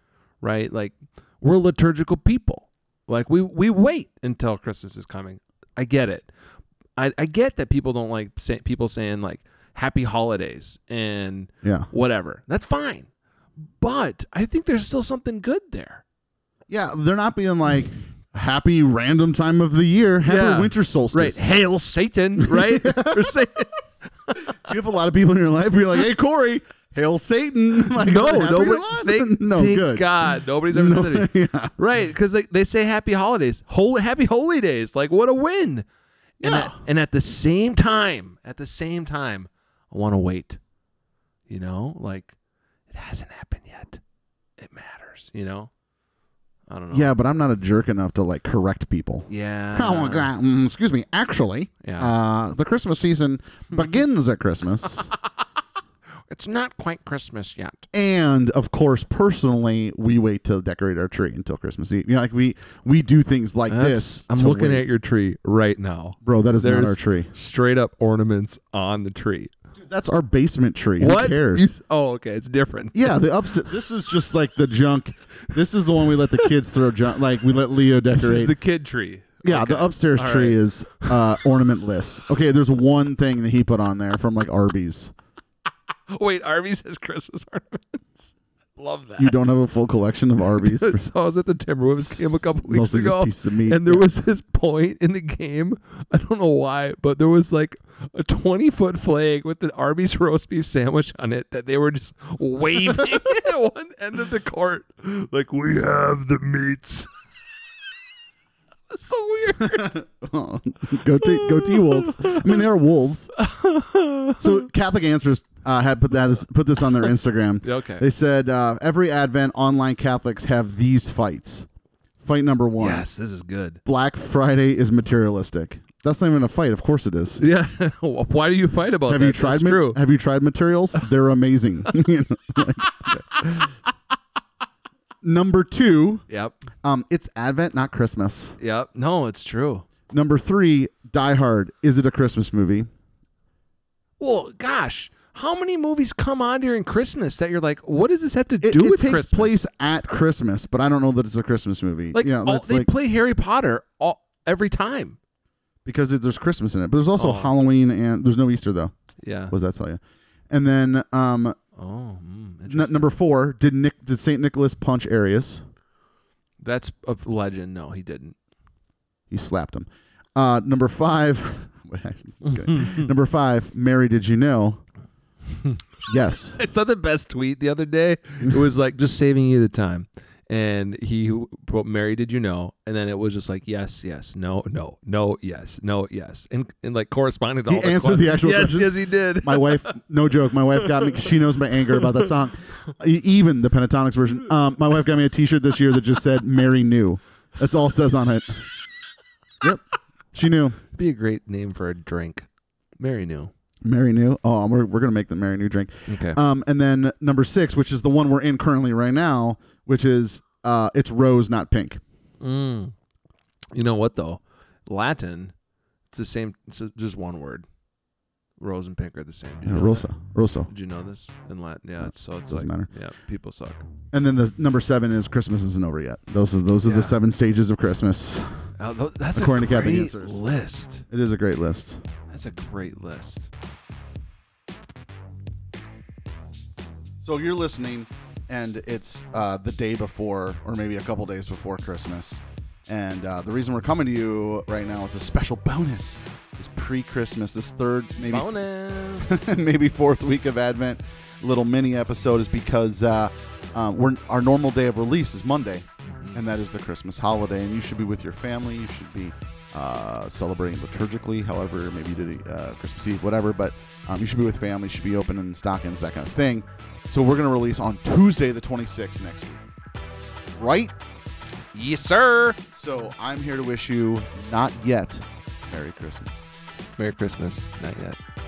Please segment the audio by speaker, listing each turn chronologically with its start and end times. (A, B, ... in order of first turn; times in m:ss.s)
0:00.4-0:06.3 A
0:07.0-0:13.1 A
0:11.6-0:11.9 B
0:13.8-0:16.0 A
0:16.7-0:21.5 B
0:20.2-0:24.6 A
0:22.4-0:23.4 B
0:24.6-0:31.8 B
0:27.9-0:35.9 A
0:36.4-0:40.6 A
0:36.4-0:36.8 B
0:41.5-0:42.4 A
0:42.9-0:44.0 A
0:44.6-0:45.7 A
0:46.7-0:47.2 A
0:46.9-0:55.1 B
0:49.3-0:50.3 A
0:51.8-0:52.2 A
0:56.3-0:57.9 A
0:57.9-1:04.9 B
1:03.7-1:09.5 A
1:06.2-1:07.3 B
1:09.8-1:11.7 B
1:11.0-1:13.8 A
1:12.9-1:18.6 B
1:15.5-1:16.5 A
1:18.1-1:21.5 A
1:19.4-1:25.1 B
1:26.1-1:29.5 A
1:29.2-1:31.1 B
1:30.6-1:47.1 A
1:32.0-1:34.1 B
1:48.9-1:49.9 A
1:49.6-1:53.3 B
1:51.2-1:52.6 A
1:53.4-1:54.6 A
1:54.4-2:01.7 B
1:57.6-1:58.1 A
2:02.2-2:03.1 B
2:02.8-2:03.8 A
2:03.9-2:07.4 B
2:07.4-2:10.0 A
2:09.1-2:13.6 B
2:12.8-2:13.7 A
2:15.2-2:16.2 B
2:16.3-2:16.6 A
2:16.8-2:18.6 B
2:18.6-2:19.9 A
2:20.1-2:22.9 B
2:24.2-2:29.6 A
2:28.6-2:32.9 B
2:32.1-2:35.2 A
2:35.8-2:38.9 B
2:37.2-2:37.5 A
2:39.2-2:39.5 A
2:39.5-2:41.6 B
2:41.8-2:43.1 A
2:42.7-2:45.6 B
2:46.6-2:48.4 A
2:49.3-2:54.8 B
2:52.5-2:53.0 A
2:56.1-2:56.6 B
2:56.6-3:10.0 A
3:07.7-3:18.7 B
3:10.8-3:11.3 A
3:19.6-3:20.8 B
3:20.9-3:22.5 A
3:23.0-3:23.5 A
3:23.8-3:32.0 B
3:26.1-3:26.4 A
3:32.4-3:33.0 A
3:33.7-3:35.5 A
3:36.1-3:37.7 A
3:38.6-3:40.1 A
3:39.6-3:40.7 B
3:40.7-3:43.9 A
3:42.0-3:42.9 B
3:44.1-3:48.5 B
3:46.8-3:47.2 A
3:48.8-3:51.0 A
3:49.4-3:50.4 B
3:51.1-3:52.0 B
3:52.3-3:53.5 A
3:57.2-4:08.6 B
4:08.2-4:09.4 A
4:09.2-4:29.7 B
4:16.0-4:16.4 A
4:30.5-4:30.9 B
4:31.7-4:32.6 A
4:32.7-4:36.5 B
4:37.0-4:38.2 A